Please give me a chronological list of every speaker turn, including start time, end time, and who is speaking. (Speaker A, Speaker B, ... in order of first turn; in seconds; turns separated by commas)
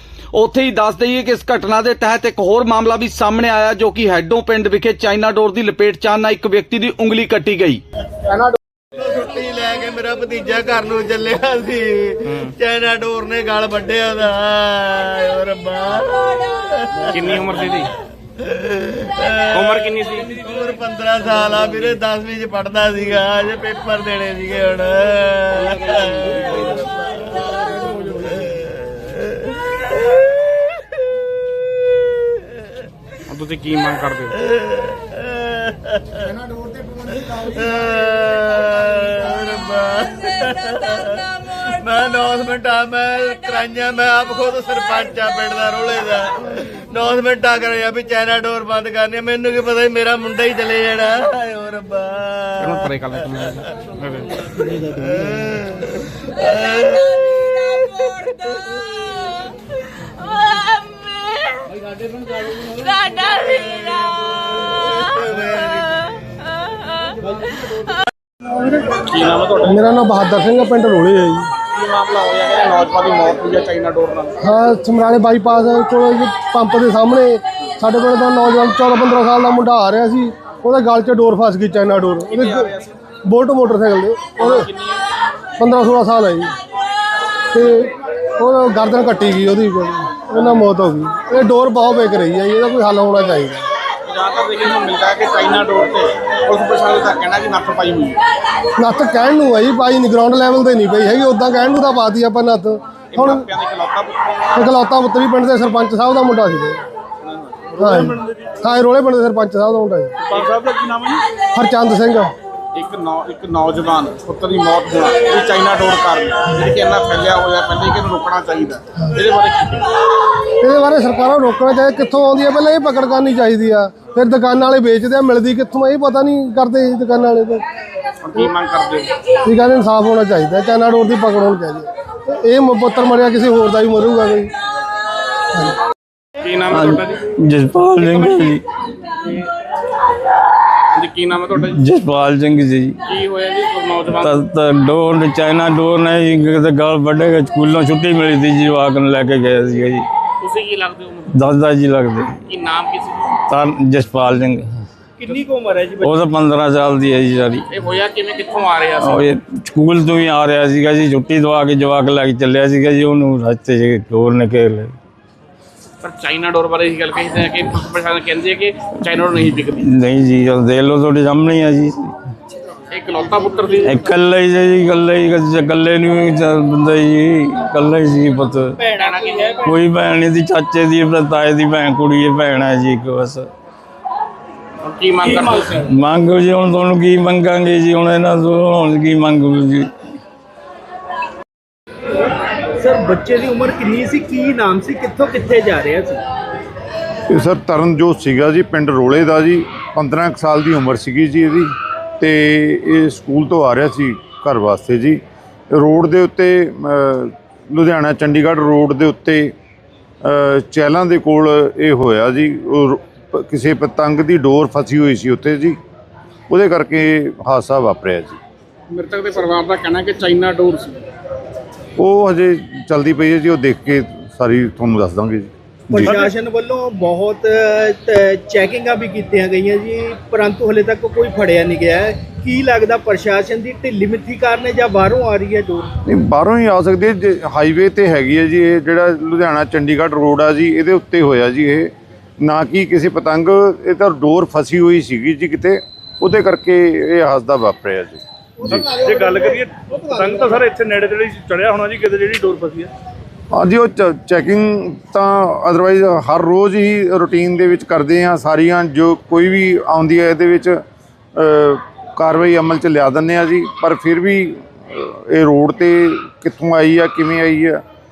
Speaker A: 0.3-7.8, Speaker B: 8.9-17.5, Speaker C: 17.1-17.9, Speaker B: 18.5-29.2, Speaker C: 19.5-20.4, Speaker C: 33.3-34.4, Speaker B: 34.6-36.4, Speaker B: 37.2-52.9, Speaker C: 52.6-54.5, Speaker B: 54.8-57.1, Speaker B: 62.8-66.3, Speaker C: 68.9-69.9, Speaker D: 69.7-71.5, Speaker C: 71.7-74.4, Speaker D: 74.4-82.7, Speaker C: 82.3-82.9, Speaker D: 83.2-84.7, Speaker C: 84.4-85.0, Speaker D: 85.6-86.5, Speaker D: 87.5-93.7, Speaker C: 94.0-98.2, Speaker D: 98.8-103.5, Speaker C: 103.1-104.4, Speaker D: 104.5-106.8, Speaker C: 107.2-108.4, Speaker D: 107.8-110.1, Speaker E: 110.2-111.2, Speaker C: 110.3-110.6, Speaker D: 111.5-112.3, Speaker C: 112.7-119.9, Speaker D: 120.6-127.6, Speaker C: 128.2-129.1, Speaker D: 129.4-134.5, Speaker C: 136.4-137.2, Speaker F: 136.7-138.6, Speaker C: 140.9-141.8, Speaker F: 141.6-143.0, Speaker C: 143.1-144.4, Speaker F: 144.1-150.1, Speaker C: 150.4-151.3, Speaker F: 151.3-152.4, Speaker C: 152.4-153.4, Speaker F: 153.5-154.7, Speaker G: 155.2-156.1, Speaker F: 156.0-157.7, Speaker C: 157.7-159.3, Speaker F: 159.0-164.9, Speaker C: 166.0-169.8, Speaker F: 169.8-172.1, Speaker C: 172.9-173.9, Speaker F: 173.8-178.8, Speaker G: 178.8-179.5, Speaker C: 178.9-179.7, Speaker F: 179.6-183.5, Speaker C: 184.8-185.9, Speaker F: 185.3-189.9, Speaker G: 192.8-196.2, Speaker H: 197.3-205.2, Speaker H: 205.7-209.5, Speaker H: 210.2-215.8, Speaker H: 216.5-218.4, Speaker C: 218.9-221.0, Speaker H: 222.0-226.1, Speaker G: 225.9-235.9, Speaker C: 226.0-226.3, Speaker H: 236.1-248.9, Speaker E: 248.7-252.9, Speaker D: 249.1-249.3, Speaker H: 253.5-260.8, Speaker H: 261.4-267.8